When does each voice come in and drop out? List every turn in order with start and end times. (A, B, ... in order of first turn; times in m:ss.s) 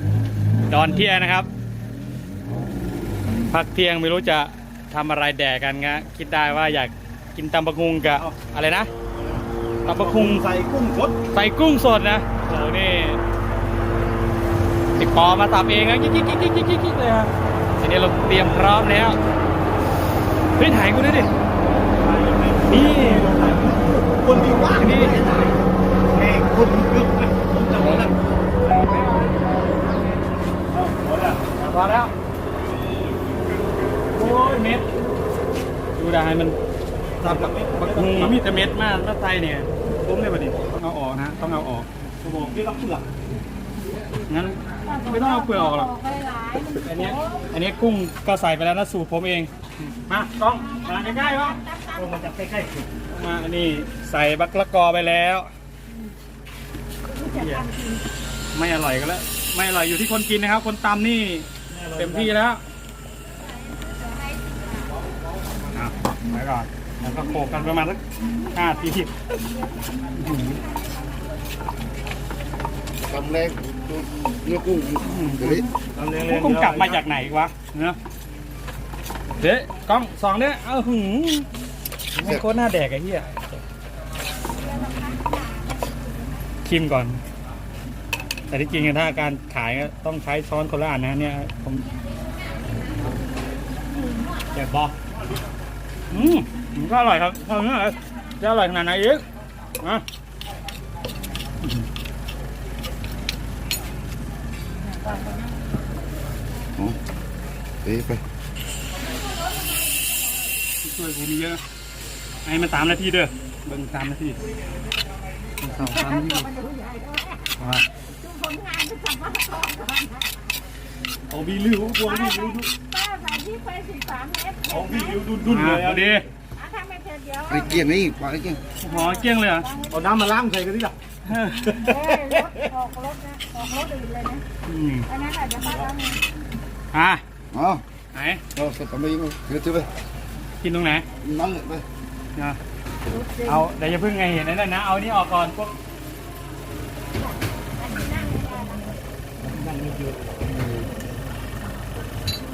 0:00.7-0:01.5 A
0:03.5-0:08.9 A
0:09.8-0:10.4 A
0:09.9-0:11.2 B
0:11.3-0:13.2 A
0:15.0-0:19.2 A
0:20.6-0:21.3 A
0:22.0-0:25.5 B
0:22.6-0:23.4 A
0:24.7-0:25.2 A
0:26.1-0:28.2 B
0:30.7-0:31.5 B
0:31.5-0:32.1 A
0:34.1-0:34.9 A
0:36.0-0:36.6 A
0:37.2-0:38.4 B
0:37.2-0:41.9 A
0:42.2-0:43.1 B
0:44.3-0:45.9 A
0:44.9-0:47.2 C
0:46.8-0:51.6 A
0:51.0-0:52.1 C
0:52.0-0:52.9 B
0:53.1-0:55.5 A
0:57.3-0:57.7 A
0:57.7-0:57.9 C
0:58.5-1:02.6 A
1:01.7-1:02.3 B
1:05.7-1:09.1 A
1:10.2-1:10.6 A
1:13.1-1:15.6 D
1:15.0-1:15.6 A
1:16.0-1:17.0 B
1:16.2-1:18.0 A
1:19.4-1:21.5 A
1:22.1-1:23.6 A
1:24.6-1:26.0 C
1:26.6-1:27.2 A
1:28.5-1:31.9 A
1:34.5-1:34.9 A
1:36.1-1:39.2 A
1:47.8-1:48.2 D
1:50.8-1:51.6 A
1:52.4-1:54.4 A
1:55.6-1:56.5 A
1:55.9-2:00.5 C
1:57.6-1:57.8 A
2:01.3-2:02.7 B
2:02.1-2:05.2 C
2:04.7-2:06.2 B
2:05.4-2:06.3 A
2:06.6-2:07.8 C
2:07.5-2:08.6 D
2:08.8-2:09.7 A
2:09.6-2:10.0 C
2:09.9-2:11.0 B
2:11.3-2:12.0 A
2:11.8-2:14.4 C
2:14.7-2:15.1 A
2:15.1-2:16.2 C
2:15.6-2:15.9 B
2:16.9-2:17.2 A
2:17.5-2:17.8 D
2:18.1-2:18.4 A
2:18.6-2:19.9 D
2:20.6-2:21.1 A
2:21.2-2:21.8 D
2:23.4-2:25.8 A
2:27.9-2:28.9 C
2:29.4-2:30.8 B